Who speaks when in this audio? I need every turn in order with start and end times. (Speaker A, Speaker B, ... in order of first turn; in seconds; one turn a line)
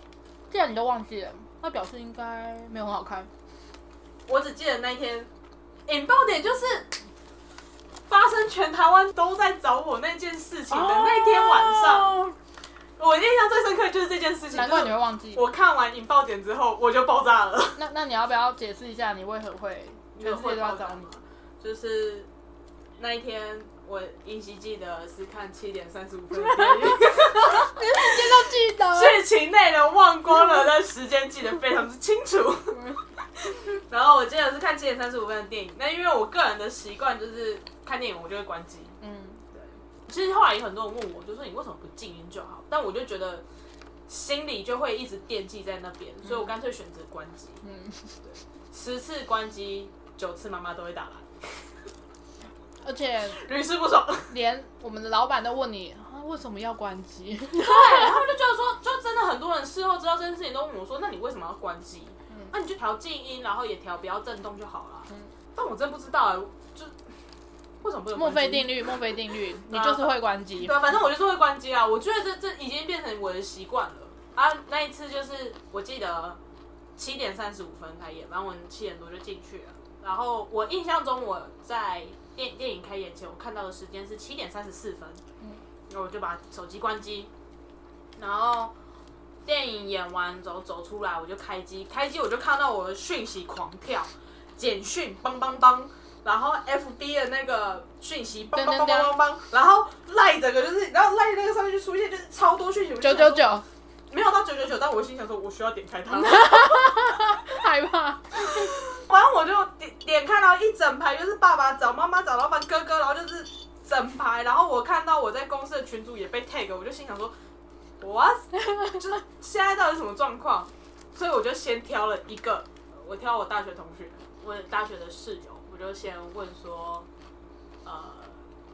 Speaker A: 0.5-3.3
Speaker B: 4.3-5.3
Speaker B: 5.8-6.9
Speaker B: 8.1-12.2
Speaker A: 10.7-12.3
Speaker B: 13.0-17.8
Speaker A: 14.5-15.4
Speaker A: 17.8-21.1
Speaker B: 20.1-22.3
Speaker B: 23.0-39.0
Speaker A: 26.4-29.2
Speaker A: 39.0-39.4
Speaker B: 39.5-43.4
Speaker B: 44.1-47.6
Speaker A: 47.6-48.2
Speaker B: 48.2-51.7
Speaker A: 52.8-53.4
Speaker B: 53.3-54.4
Speaker A: 54.3-58.1
Speaker B: 57.5-67.2
Speaker B: 67.8-69.0
Speaker A: 68.1-70.9
Speaker B: 69.6-76.4
Speaker B: 77.0-85.2
Speaker B: 85.9-87.3
Speaker B: 88.2-88.7
Speaker B: 89.5-103.5
Speaker A: 98.5-99.1
Speaker A: 103.0-103.7
Speaker B: 104.1-106.9
Speaker A: 106.1-108.7
Speaker B: 108.3-117.3
Speaker B: 118.0-127.1
Speaker B: 127.8-128.4